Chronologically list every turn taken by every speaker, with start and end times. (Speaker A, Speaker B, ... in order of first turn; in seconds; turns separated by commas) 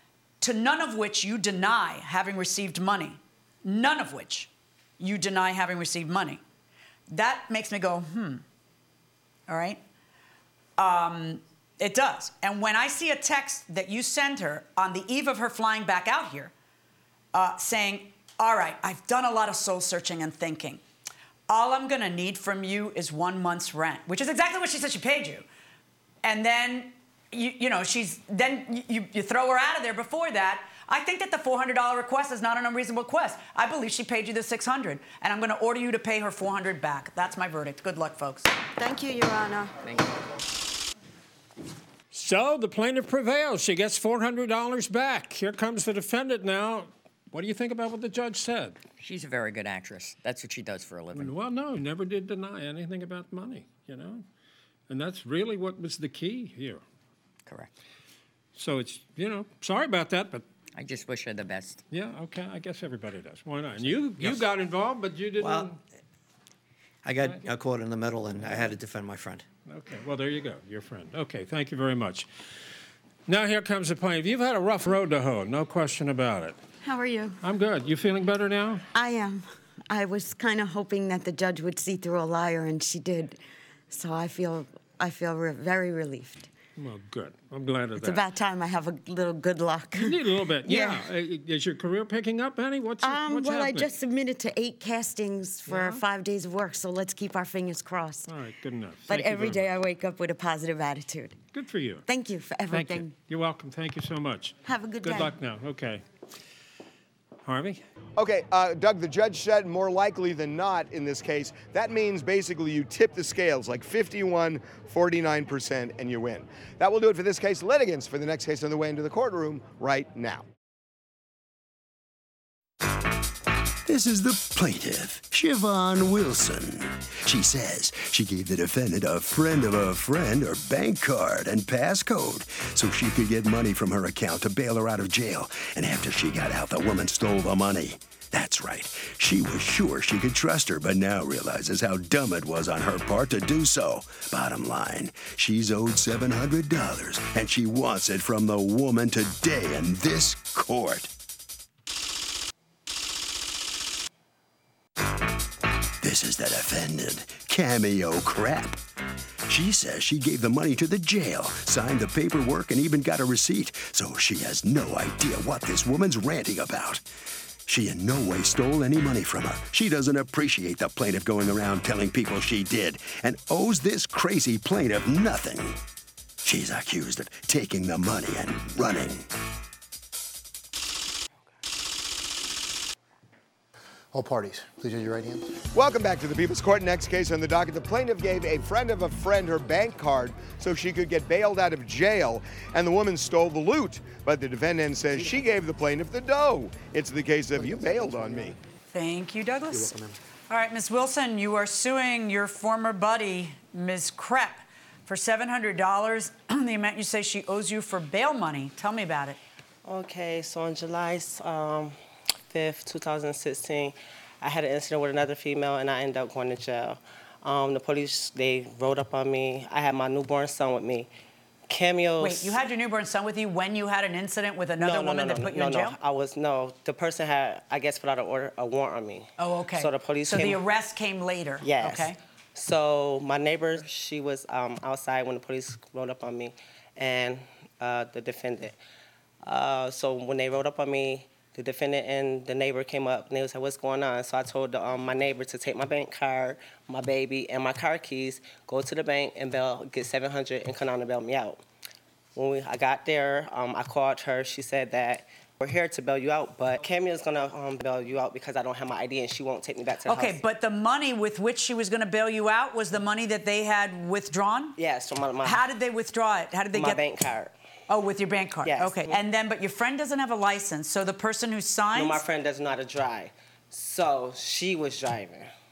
Speaker A: 0.4-6.4, Speaker A: 7.1-8.4, Speaker A: 9.5-9.8, Speaker A: 10.8-16.5, Speaker A: 17.3-20.8, Speaker A: 21.5-25.4, Speaker A: 26.2-38.5, Speaker B: 38.8-39.7, Speaker C: 39.8-40.1, Speaker D: 42.1-48.8, Speaker C: 49.0-51.3, Speaker D: 51.1-54.2, Speaker D: 54.9-56.8, Speaker D: 58.5-60.4, Speaker C: 60.8-61.8, Speaker D: 61.9-65.8, Speaker E: 64.2-64.5, Speaker E: 65.4-65.7, Speaker E: 67.0-69.4, Speaker D: 69.7-72.3, Speaker D: 73.3-76.5, Speaker B: 76.8-77.4, Speaker D: 77.4-78.8, Speaker B: 78.9-83.4, Speaker B: 83.9-86.5, Speaker D: 86.8-88.2, Speaker B: 88.0-91.1, Speaker D: 89.9-93.9, Speaker B: 93.0-98.3, Speaker D: 95.7-96.0, Speaker D: 98.3-99.7, Speaker B: 99.1-101.4, Speaker D: 101.5-102.0, Speaker B: 102.1-103.1, Speaker D: 102.7-106.0, Speaker B: 104.7-105.3, Speaker D: 107.4-107.8, Speaker F: 108.2-120.5, Speaker G: 123.8-151.1, Speaker G: 156.0-158.8, Speaker G: 159.4-167.0, Speaker G: 167.7-175.8, Speaker G: 176.4-179.3, Speaker H: 184.1-185.6, Speaker F: 185.7-198.6, Speaker H: 197.6-198.5, Speaker A: 198.9-200.0, Speaker H: 199.7-200.1, Speaker A: 200.5-209.4, Speaker I: 209.8-211.9, Speaker I: 212.5-221.1, Speaker I: 221.7-222.6, Speaker A: 222.2-226.0, Speaker I: 224.8-230.6, Speaker A: 229.4-232.2, Speaker I: 231.6-238.8, Speaker I: 239.4-251.6, Speaker I: 252.3-260.4, Speaker A: 260.1-264.8, Speaker I: 264.8-265.6, Speaker A: 265.4-267.0, Speaker I: 266.7-267.5, Speaker A: 267.9-272.2, Speaker I: 268.6-269.2, Speaker I: 271.9-275.5